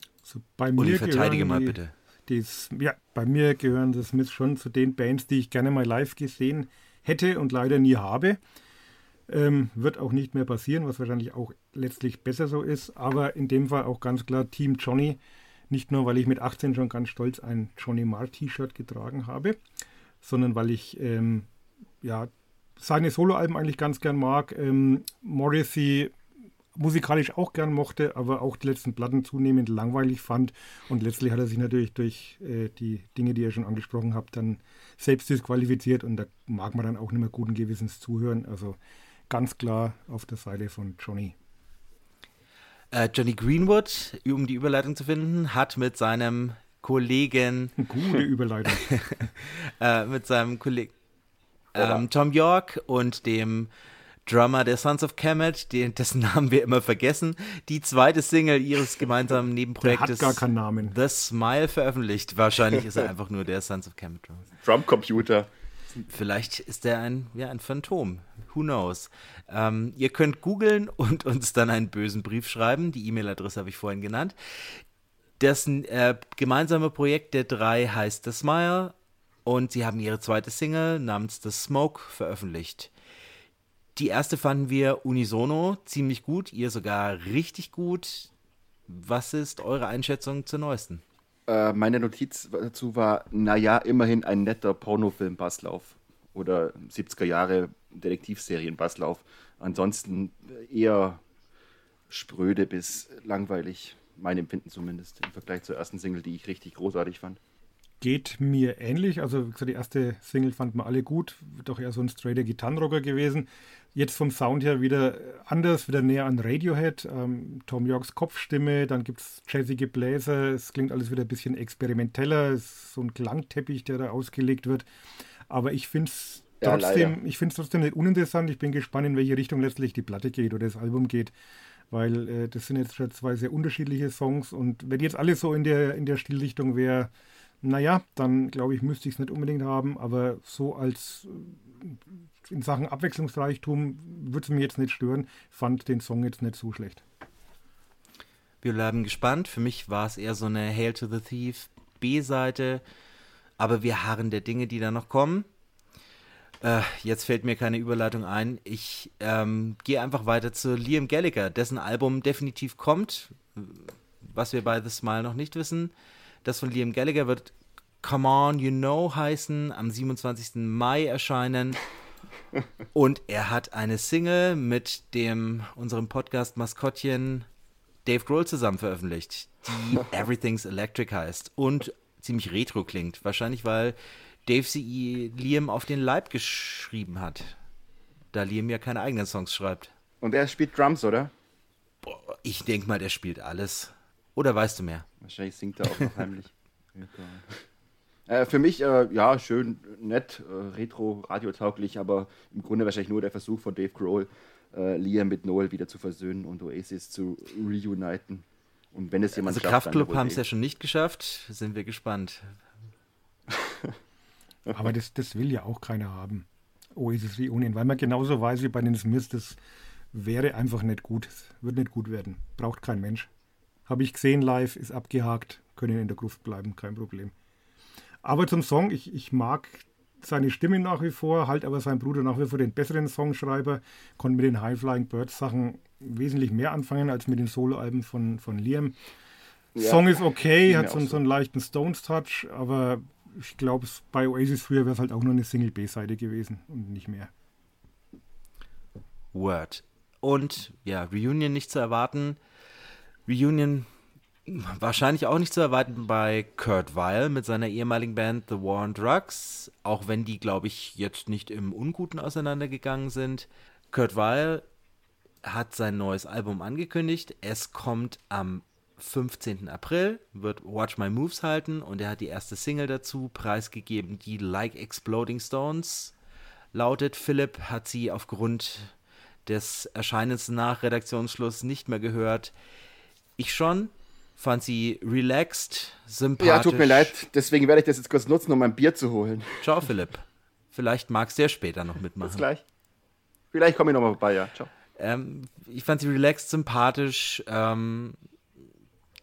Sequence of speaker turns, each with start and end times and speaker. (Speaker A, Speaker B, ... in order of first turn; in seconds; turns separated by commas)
Speaker A: 0.2-8.4, Speaker B: 0.8-1.9, Speaker A: 9.3-15.2, Speaker A: 15.7-19.6, Speaker A: 20.2-21.5, Speaker A: 22.0-26.1, Speaker A: 26.7-38.8, Speaker A: 39.3-41.3, Speaker B: 42.9-47.8, Speaker A: 47.8-48.9, Speaker B: 48.8-50.9, Speaker B: 51.7-53.7, Speaker C: 51.8-52.0, Speaker B: 54.2-64.5, Speaker A: 59.8-61.0, Speaker C: 64.6-65.5, Speaker B: 66.1-74.8, Speaker B: 75.4-82.9, Speaker B: 84.0-88.3, Speaker B: 88.9-91.0, Speaker C: 91.5-101.2, Speaker C: 102.1-107.4, Speaker A: 108.0-124.8, Speaker A: 125.5-131.3, Speaker C: 126.6-127.1, Speaker A: 131.9-137.1, Speaker A: 137.6-147.0, Speaker B: 148.6-152.8, Speaker B: 153.6-155.5, Speaker B: 156.6-165.9, Speaker B: 166.4-171.8, Speaker B: 172.9-177.5, Speaker B: 178.0-187.6, Speaker B: 188.3-189.9, Speaker C: 190.2-191.3, Speaker B: 192.0-195.1, Speaker C: 195.2-197.6, Speaker C: 198.3-210.4, Speaker B: 209.4-212.4, Speaker C: 213.5-213.9, Speaker A: 214.7-219.6, Speaker A: 220.1-223.3, Speaker A: 223.9-227.3, Speaker A: 228.2-238.9, Speaker C: 239.7-241.2, Speaker A: 239.8-247.3, Speaker B: 249.3-252.4, Speaker B: 253.3-253.9, Speaker B: 254.4-264.6, Speaker B: 265.4-276.1, Speaker B: 276.7-278.9, Speaker B: 279.4-282.5, Speaker B: 283.4-287.1, Speaker C: 286.4-289.8, Speaker B: 289.6-292.4, Speaker C: 292.2-292.6, Speaker C: 293.5-294.7, Speaker B: 295.0-298.2